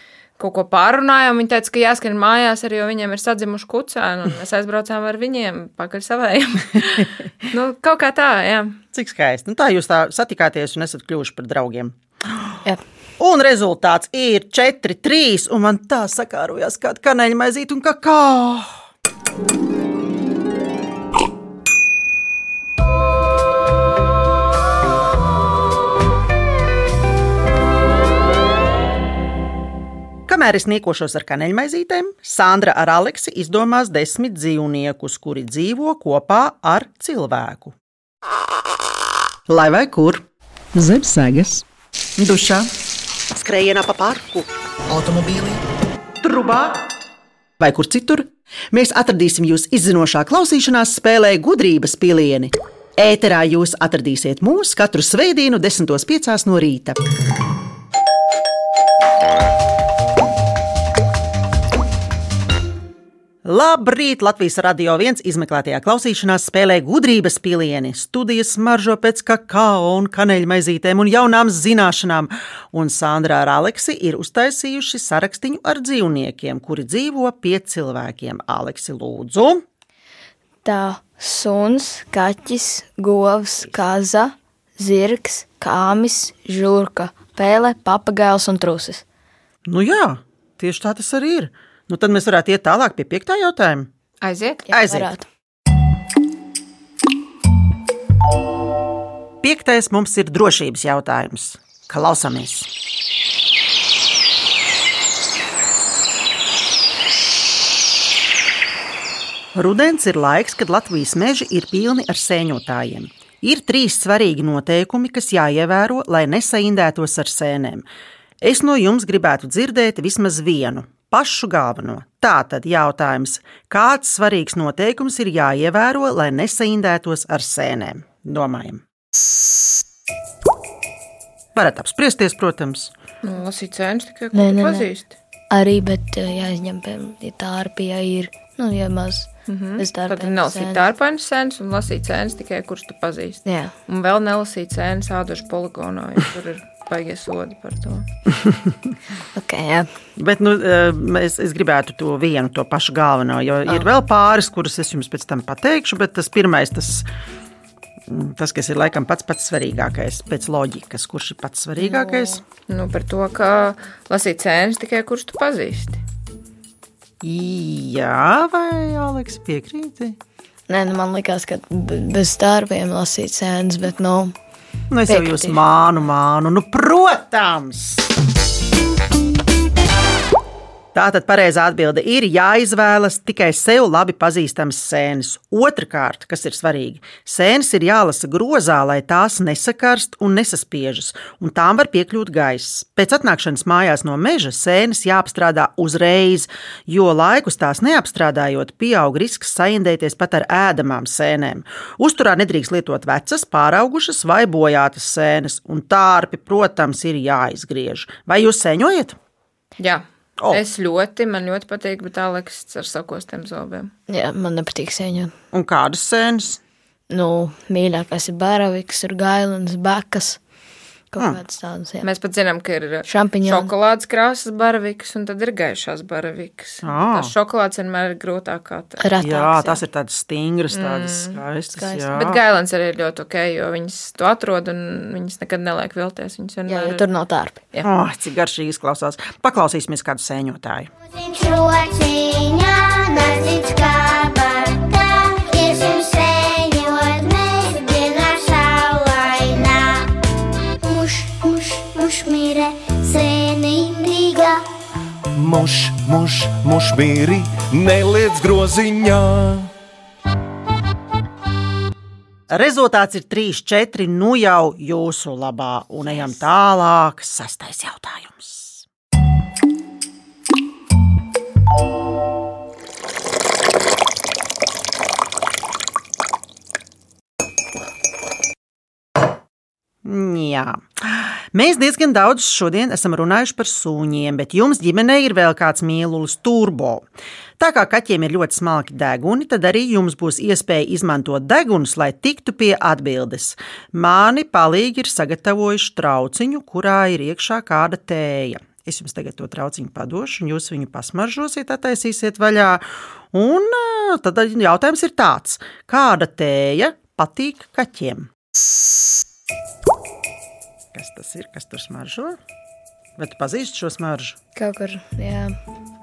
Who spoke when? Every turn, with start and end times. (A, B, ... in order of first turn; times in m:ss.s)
0:00.4-0:08.8 A
0:08.9-0:12.0 B
0:13.2-0:18.7 B
0:30.3-0:37.8 B
0:39.5-0:41.6 B
0:42.2-0:42.7 B
0:43.3-0:45.6 B
0:46.2-0:46.8 B
0:47.6-0:57.0 B
1:03.4-1:19.6 B
1:20.6-1:29.0 C
1:29.7-1:33.9 B
1:34.2-1:34.6 A
1:34.7-1:35.2 C
1:34.7-1:35.1 B
1:39.4-1:42.7 B
1:49.5-1:57.9 B
1:58.4-2:08.8 B
2:11.6-2:12.9 B
2:13.2-2:15.1 A
2:14.3-2:14.9 C
2:15.5-2:20.8 C
2:19.5-2:28.1 A
2:23.4-2:23.7 C
2:28.4-2:28.7 B
2:29.4-2:29.9 C
2:30.2-2:37.1 B
2:38.1-2:42.4 B
2:42.7-2:46.0 A
2:47.2-2:50.2 B
2:50.7-2:54.3 C
2:54.9-2:58.0 B
2:55.1-2:55.6 C
3:00.9-3:29.2 B
3:29.8-3:33.9 A
3:34.1-3:35.3 C
3:35.5-3:36.6 B
3:37.1-3:40.4 C
3:41.1-3:42.1 C
3:42.0-3:49.1 A
3:43.1-3:43.7 C
3:46.8-3:47.3 B
3:49.0-3:49.8 C
3:49.2-3:52.4 B
3:50.7-3:51.4 A
3:51.8-3:52.1 C
3:52.1-3:57.1 A
3:56.7-3:57.6 C
3:57.8-4:00.9 B
4:01.1-4:10.1 D
4:10.8-4:14.6 D
4:15.4-4:19.7 E
4:22.5-4:28.9 B
4:40.0-4:47.0 B
4:47.6-5:08.3 B
5:10.9-5:12.4 B
5:13.2-5:14.4 B
5:14.6-5:15.6 C